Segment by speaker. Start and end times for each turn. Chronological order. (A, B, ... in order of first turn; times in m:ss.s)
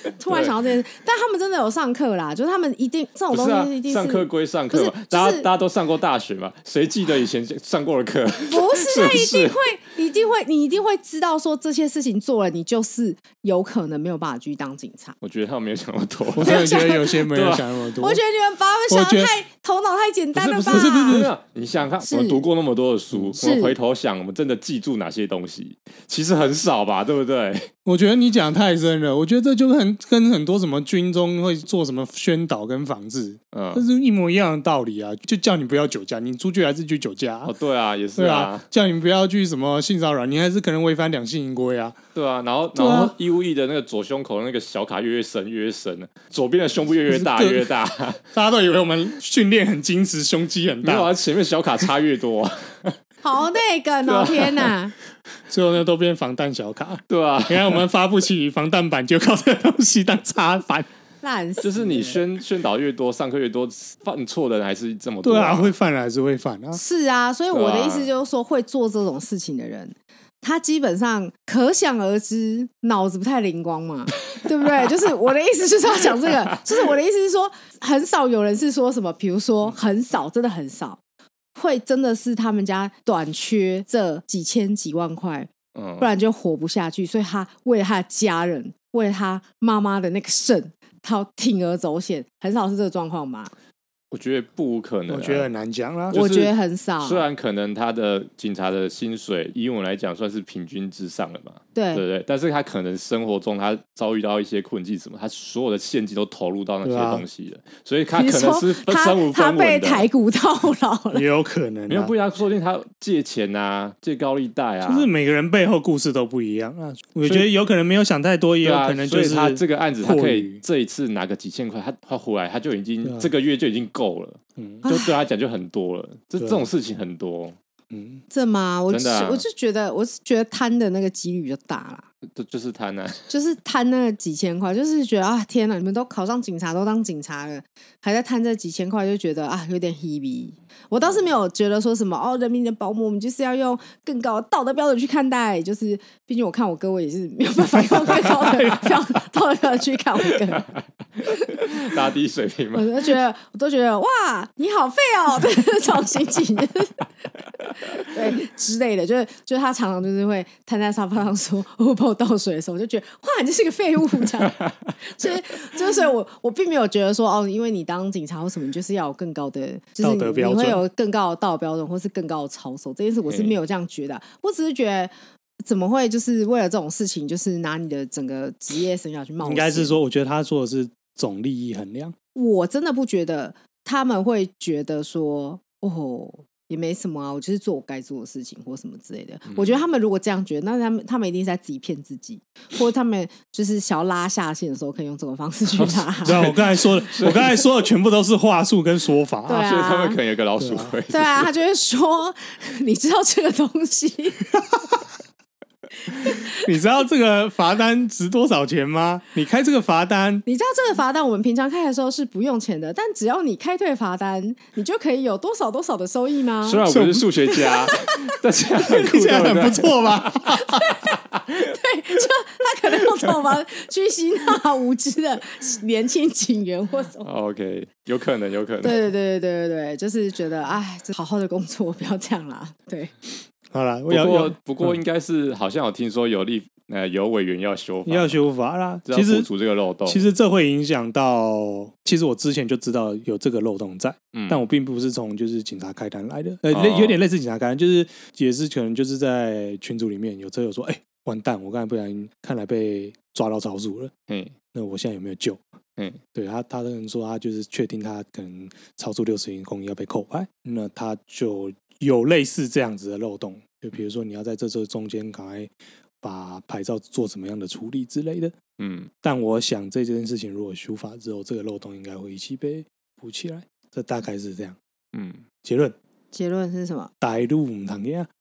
0:00.2-0:05.5 A
0:00.3-0:00.6 B
0:03.3-0:09.6 B
0:08.5-0:15.2 A
0:15.2-0:17.7 B
0:16.3-0:18.2 C
0:16.4-0:17.2 A
0:18.0-0:21.2 A
0:18.9-0:19.3 C
0:20.3-0:27.7 B
0:20.7-0:21.3 C
0:22.0-0:22.4 A
0:23.4-0:23.8 A
0:27.8-0:37.5 C
0:33.5-0:33.8 B
0:37.4-0:38.7 B
0:38.2-0:42.0 C
0:42.1-0:48.2 B
0:42.7-0:43.2 C
0:47.1-0:47.7 C
0:48.2-0:51.1 C
0:50.8-0:53.0 B
0:53.2-0:54.9 A
0:54.0-0:54.7 B
0:55.5-1:00.9 C
0:57.1-0:57.8 B
1:01.2-1:02.2 A
1:01.6-1:05.7 B
1:05.2-1:06.8 C
1:06.7-1:21.0 A
1:07.5-1:08.1 B
1:21.6-1:33.5 A
1:25.7-1:26.1 B
1:34.1-1:35.5 B
1:35.1-1:36.2 C
1:36.1-1:37.3 A
1:36.1-1:50.1 B
1:41.7-1:42.0 A
1:46.8-1:47.2 C
1:48.1-1:51.2 A
1:51.1-1:52.1 C
1:51.9-1:55.1 B
1:54.8-2:00.6 C
1:57.2-1:57.5 B
1:58.6-2:07.6 B
2:03.0-2:03.3 C
2:04.6-2:04.8 C
2:04.8-2:05.2 A
2:06.4-2:06.7 C
2:07.9-2:08.2 C
2:08.3-2:12.1 A
2:08.9-2:09.4 B
2:12.3-2:13.3 B
2:13.3-2:30.7 A
2:31.3-2:31.9 A
2:31.4-2:33.1 B
2:32.7-2:37.0 A
2:37.8-3:00.0 A
2:50.0-2:50.8 C
2:53.3-2:53.6 B
2:59.4-3:02.1 C
3:02.3-3:16.6 A
3:09.5-3:09.8 B
3:15.8-3:17.6 B
3:16.2-3:19.7 C
3:19.5-3:20.2 A
3:19.6-3:21.5 B
3:20.6-3:21.0 C
3:21.1-3:24.5 A
3:24.7-3:25.0 C
3:26.2-3:26.6 A
3:26.5-3:30.4 C
3:30.4-3:36.9 A
3:36.6-3:40.4 B
3:36.8-3:37.3 C
3:37.5-3:38.2 A
3:38.8-3:40.9 C
3:40.5-3:47.3 A
3:47.2-3:49.0 B
3:48.8-3:53.1 A
3:53.7-3:55.0 C
3:54.1-3:58.4 B
3:58.0-3:59.5 C
3:59.0-4:00.3 B
4:00.0-4:14.1 C
4:04.3-4:04.6 B
4:06.7-4:07.2 B
4:14.3-4:14.6 B
4:14.7-4:15.6 C
4:16.3-4:25.7 C
4:26.2-4:28.6 C
4:28.8-4:29.1 B
4:29.2-4:34.8 C
4:35.1-4:35.4 B
4:35.6-4:35.9 C
4:36.3-4:37.1 A
4:37.2-4:38.3 C